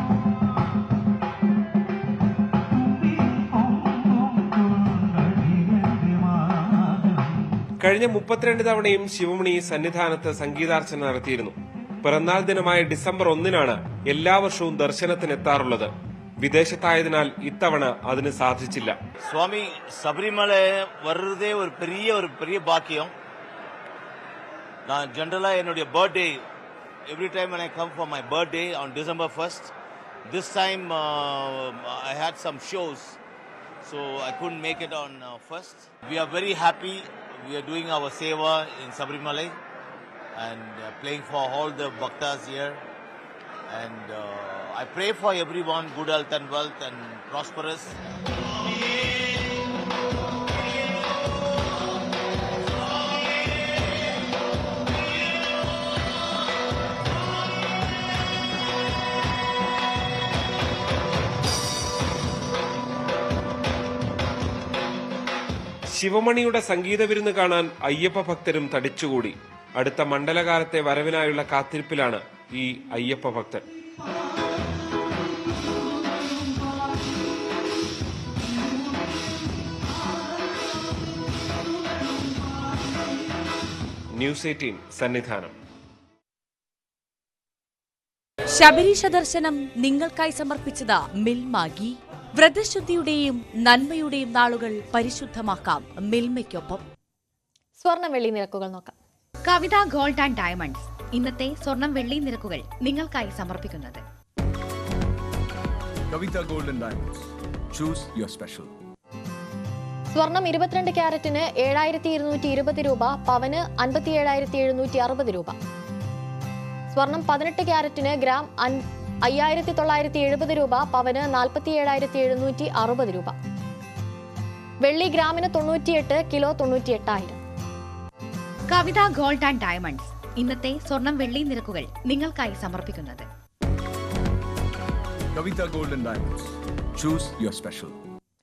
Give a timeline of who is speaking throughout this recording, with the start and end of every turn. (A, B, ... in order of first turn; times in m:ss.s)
0:07.8-0:15.9 A
0:16.4-0:19.0 A
0:19.2-0:23.1 B
0:24.8-0:26.4 B
0:27.1-0:29.7 B
0:30.3-0:33.2 B
0:33.8-0:39.6 B
0:40.4-0:42.8 B
0:43.7-0:48.0 B
1:05.9-1:13.6 A
1:24.2-1:25.5 A
1:28.5-1:36.8 C
1:37.8-1:38.9 D
1:39.4-1:44.0 E
1:46.1-1:48.7 F
1:50.1-1:55.6 D
1:56.9-2:03.3 D
2:04.8-2:07.4 D
2:08.7-2:13.2 E
2:15.3-2:16.4 F
2:17.0-2:17.9 F